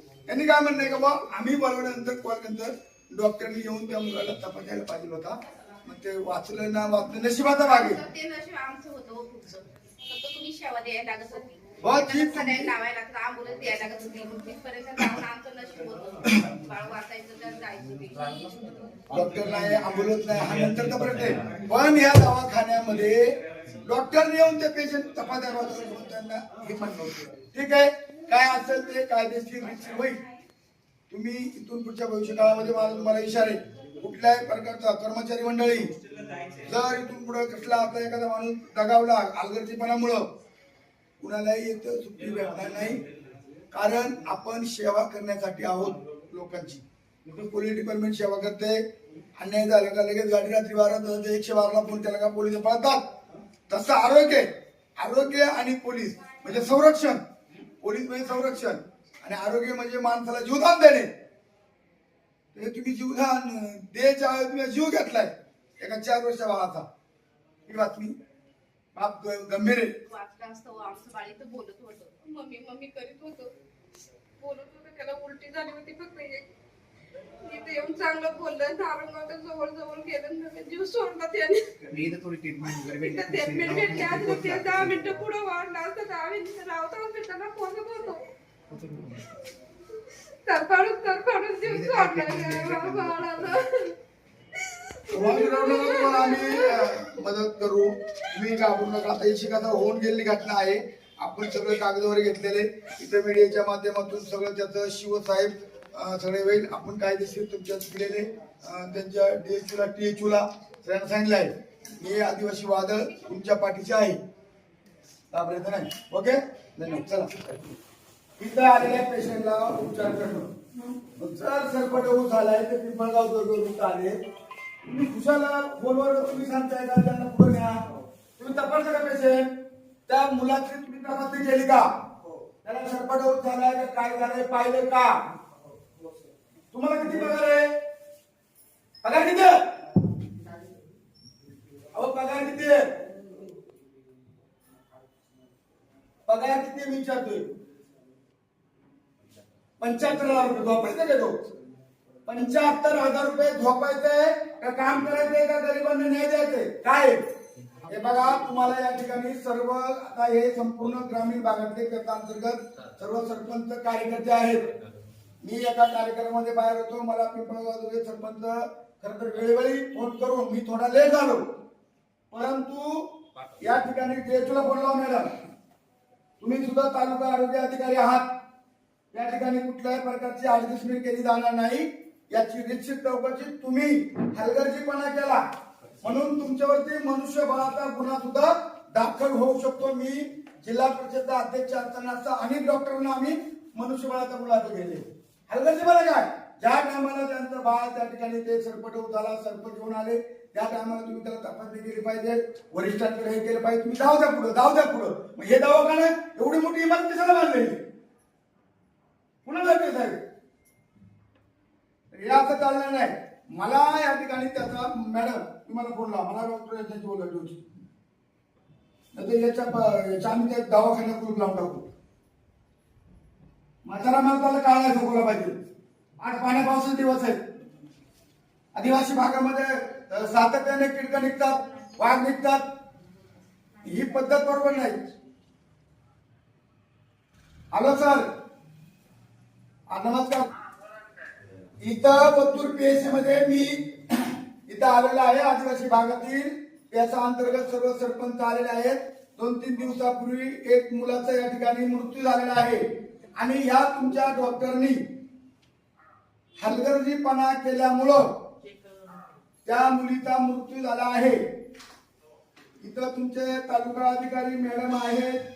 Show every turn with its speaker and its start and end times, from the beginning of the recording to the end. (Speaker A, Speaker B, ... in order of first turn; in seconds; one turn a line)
Speaker A: 0.3-8.0
Speaker B: 7.6-19.1
Speaker A: 11.8-12.7
Speaker A: 19.1-30.2
Speaker C: 19.3-19.8
Speaker C: 20.7-21.6
Speaker A: 31.1-35.9
Speaker A: 36.6-40.3
Speaker A: 41.2-43.0
Speaker A: 43.7-48.8
Speaker A: 49.4-53.0
Speaker A: 53.7-57.2
Speaker A: 57.8-61.1
Speaker A: 62.5-66.9
Speaker A: 67.7-68.2
Speaker A: 69.0-69.9
Speaker B: 70.1-73.5
Speaker B: 74.4-76.5
Speaker B: 77.5-81.6
Speaker C: 81.9-85.1
Speaker B: 83.0-88.2
Speaker C: 88.7-89.3
Speaker B: 90.5-94.0
Speaker C: 91.7-93.6
Speaker B: 94.7-97.0
Speaker A: 95.1-114.2
Speaker A: 115.3-117.8
Speaker A: 118.4-120.5
Speaker A: 121.2-124.2
Speaker A: 124.8-127.7
Speaker A: 128.4-129.5
Speaker A: 130.1-131.9
Speaker A: 132.6-135.2
Speaker A: 136.7-137.7
Speaker A: 139.0-139.7
Speaker A: 141.9-143.0
Speaker A: 146.3-147.6
Speaker A: 149.8-151.4
Speaker A: 152.3-157.2
Speaker A: 157.9-164.7
Speaker A: 165.4-171.4
Speaker A: 172.3-175.3
Speaker A: 176.4-178.3
Speaker A: 179.1-185.4
Speaker A: 186.0-207.8
Speaker A: 209.4-210.2
Speaker A: 212.1-217.7
Speaker A: 219.2-221.9
Speaker A: 223.8-225.6
Speaker A: 226.2-227.4
Speaker A: 228.8-232.7
Speaker A: 233.8-235.1
Speaker A: 237.7-238.3
Speaker A: 239.9-240.5
Speaker A: 241.8-252.8
Speaker A: 253.3-255.0
Speaker A: 256.6-258.4
Speaker A: 259.7-261.4
Speaker A: 262.8-265.4